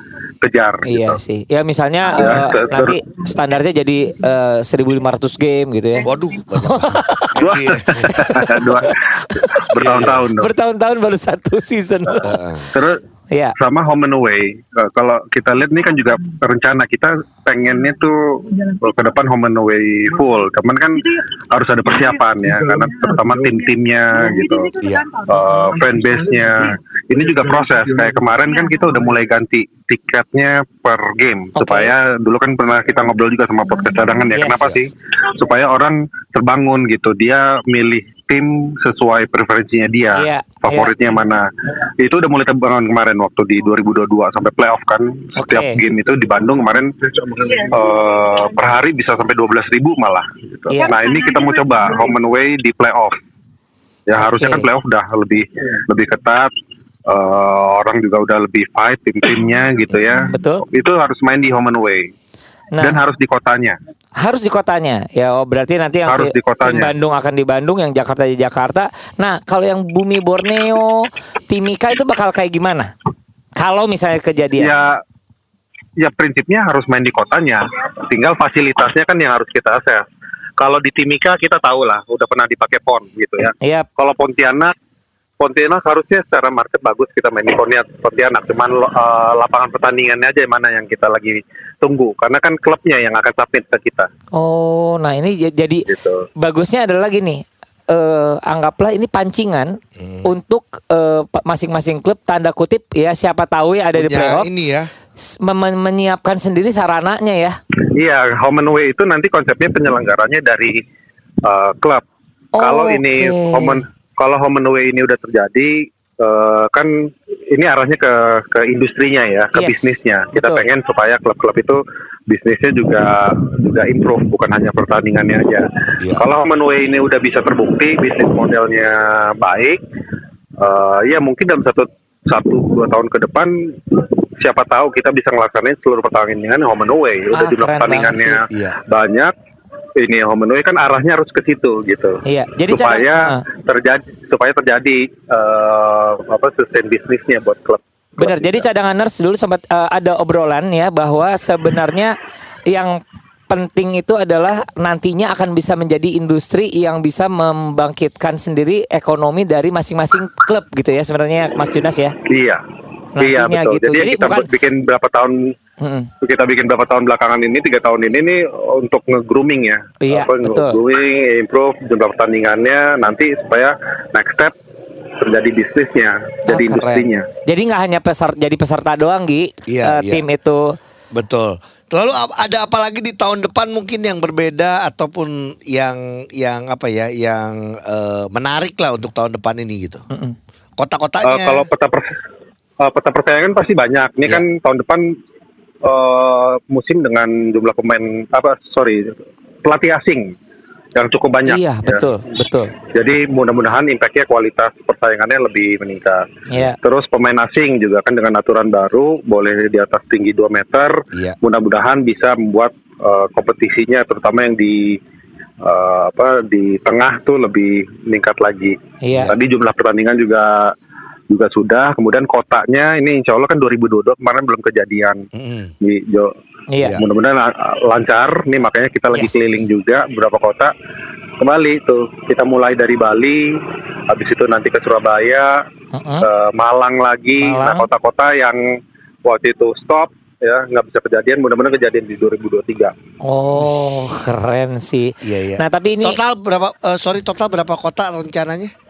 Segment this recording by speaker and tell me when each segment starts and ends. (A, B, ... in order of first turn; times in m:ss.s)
0:00.4-0:01.2 A
0:00.8-0:07.4 B
0:02.1-0:03.0 A
0:06.0-0:08.1 C
0:07.4-0:10.5 A
0:08.1-0:12.4 B
0:09.8-0:10.3 C
0:12.1-0:13.0 A
0:12.2-0:12.7 C
0:13.6-0:41.4 A
0:24.8-0:25.1 C
0:25.3-0:25.8 B
0:31.5-0:31.9 B
0:34.3-0:34.8 B
0:40.1-0:41.0 B
0:42.0-0:53.1 A
0:45.4-0:45.8 B
0:50.7-0:51.0 B
0:54.1-0:56.5 A
0:54.2-0:54.7 B
0:57.1-1:02.1 A
1:00.3-1:00.6 B
1:02.7-1:03.0 B
1:02.8-1:03.8 A
1:04.2-1:12.9 B
1:06.1-1:06.9 A
1:13.6-1:14.7 B
1:14.6-1:15.0 A
1:16.0-1:20.0 A
1:20.6-1:24.7 A
1:23.6-1:23.9 B
1:25.4-1:34.1 A
1:34.4-1:35.8 B
1:35.9-1:36.2 A
1:36.4-1:39.7 B
1:40.0-1:40.3 C
1:40.2-1:44.5 B
1:43.9-1:44.9 C
1:45.2-1:47.6 B
1:47.9-1:50.8 A
1:51.4-1:52.0 A
1:52.5-1:53.8 B
1:52.6-1:56.9 A
1:57.5-2:01.8 A
1:59.5-2:00.6 B
2:02.3-2:09.8 A
2:10.6-2:19.3 A
2:17.3-2:18.4 B
2:20.0-2:28.7 A
2:22.2-2:23.4 B
2:28.2-2:32.1 B
2:32.7-2:42.1 B
2:42.2-2:42.6 A
2:43.2-2:44.5 B
2:43.2-2:45.3 A
2:45.8-2:46.1 B
2:46.2-2:54.5 A
2:50.0-2:50.8 B
2:55.2-2:57.2 A
2:56.5-3:00.6 B
2:59.7-3:00.2 C
3:01.1-3:10.0 C
3:10.8-3:11.7 C
3:11.2-3:12.1 A
3:12.8-3:15.0 A
3:15.8-3:19.0 A
3:19.6-3:20.2 A
3:20.9-3:22.1 A
3:21.4-3:22.7 B
3:22.8-3:35.0 A
3:26.5-3:26.8 B
3:35.6-3:38.8 A
3:39.0-3:39.3 B
3:39.3-3:40.7 A
3:41.3-3:45.2 A
3:45.3-3:45.7 C
3:45.8-3:46.3 A
3:46.7-3:47.0 B
3:46.9-3:50.7 A
3:49.1-3:49.6 B
3:51.4-3:53.4 A
3:54.1-3:55.5 A
3:55.9-3:56.3 B
3:56.2-3:58.6 A
3:57.4-3:57.9 B
3:59.2-4:02.9 A
4:03.2-4:06.2 B
4:05.2-4:08.7 C